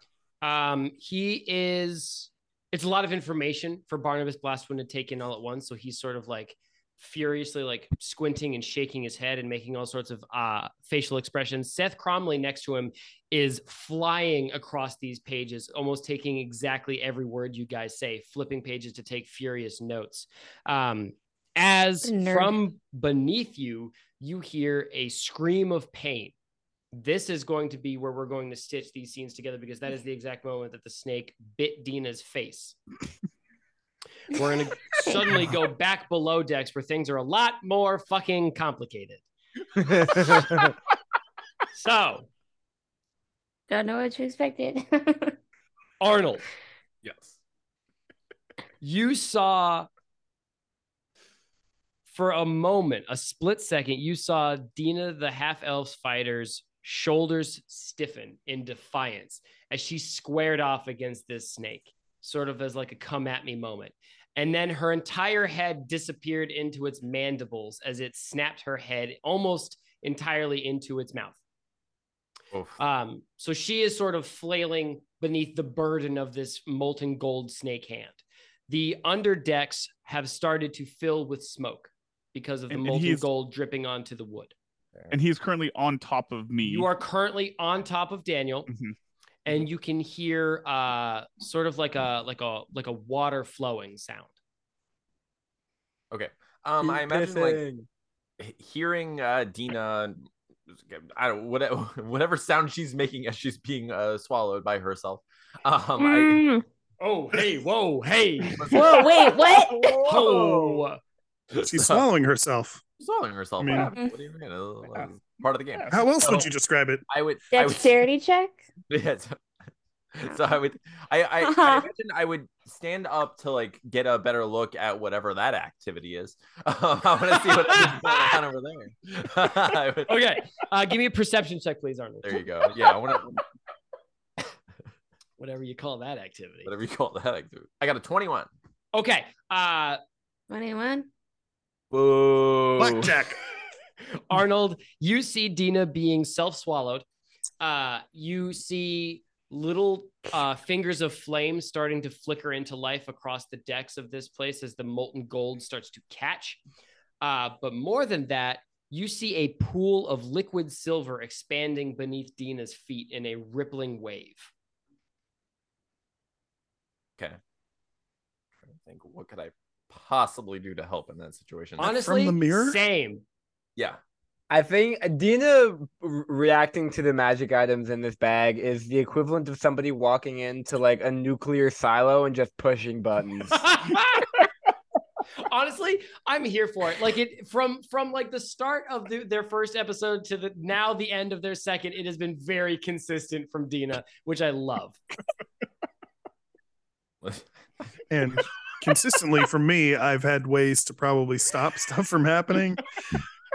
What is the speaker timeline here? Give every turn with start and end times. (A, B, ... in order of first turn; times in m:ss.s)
0:00.4-0:26.3 A
0:22.0-0:22.6 B
0:26.9-0:32.8 A
0:34.3-0:39.2 A
0:39.8-0:40.7 C
0:41.7-0:42.3 A
0:43.7-0:45.4 B
0:46.0-0:46.5 A
0:47.0-0:47.4 D
0:48.8-0:49.9 A
0:52.1-1:11.4 A
1:12.5-1:12.8 D
1:12.8-1:24.6 A
1:22.7-1:23.3 E
1:25.1-1:26.9 E
1:26.6-1:28.7 A
1:28.7-1:29.0 E
1:29.5-1:34.3 A
1:36.1-1:37.6 D
1:36.8-1:37.9 C
1:38.4-1:40.2 D
1:40.8-1:46.4 D
1:46.0-1:46.6 B
1:47.0-1:48.9 A
1:48.6-1:49.1 D
1:48.7-1:50.1 B
1:49.8-1:50.4 C
1:50.0-1:51.0 A
1:51.5-1:52.1 D
1:51.6-1:52.8 F
1:53.0-1:56.5 D
1:53.6-1:53.9 F
1:53.9-1:54.2 B
1:55.9-1:57.0 F
1:57.1-1:58.0 D
1:57.5-1:58.6 B
1:58.9-1:59.4 D
2:00.2-2:10.2 D
2:00.3-2:00.6 B
2:01.4-2:01.9 B
2:07.4-2:08.4 A
2:10.1-2:12.4 A
2:12.2-2:13.4 D
2:15.4-2:16.7 A
2:16.6-2:18.5 D
2:18.9-2:20.0 A
2:20.5-2:21.1 B
2:21.9-2:23.2 C
2:22.8-2:23.4 F
2:24.3-2:27.0 A
2:27.6-2:36.6 A
2:37.2-2:44.5 A
2:48.7-2:52.0 D
2:51.8-2:52.8 F
2:51.8-2:53.2 A
2:54.5-3:03.7 C
3:03.5-3:04.2 A
3:05.4-3:15.0 A
3:18.1-3:22.8 F